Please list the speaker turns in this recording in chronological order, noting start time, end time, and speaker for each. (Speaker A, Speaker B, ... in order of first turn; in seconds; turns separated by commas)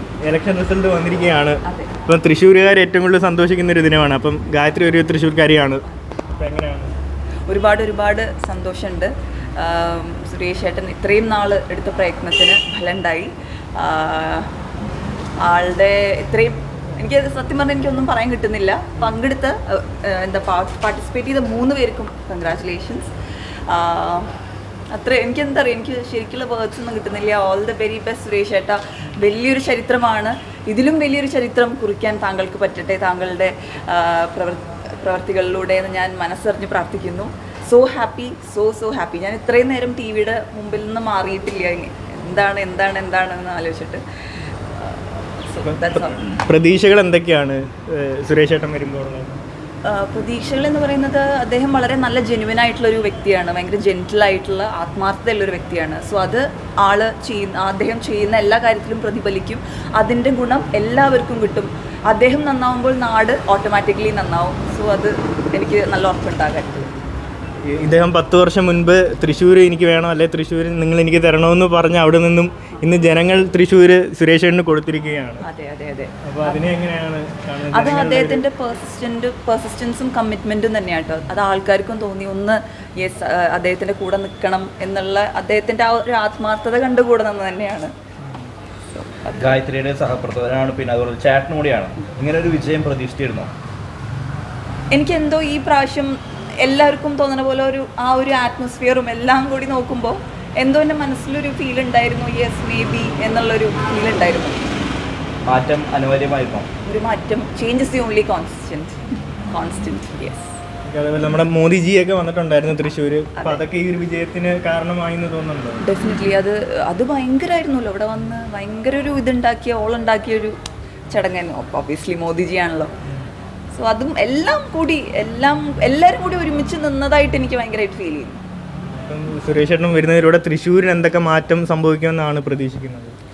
Speaker A: 0.3-1.6, Speaker B: 1.6-1.9, Speaker A: 2.1-5.8, Speaker A: 6.4-6.8, Speaker B: 7.5-14.5, Speaker B: 15.4-23.1, Speaker B: 23.7-24.3, Speaker B: 24.9-44.0, Speaker B: 44.7-46.3, Speaker A: 46.5-49.3, Speaker B: 49.8-66.9, Speaker A: 67.7-75.4, Speaker B: 75.4-76.6, Speaker A: 76.4-78.4, Speaker B: 77.7-87.9, Speaker B: 88.9-89.6, Speaker C: 89.4-93.5, Speaker B: 94.9-104.7, Speaker C: 105.5-106.7, Speaker B: 106.8-110.5, Speaker A: 110.9-115.7, Speaker B: 115.8-120.5, Speaker B: 121.1-122.9, Speaker B: 123.7-128.4, Speaker A: 129.1-133.1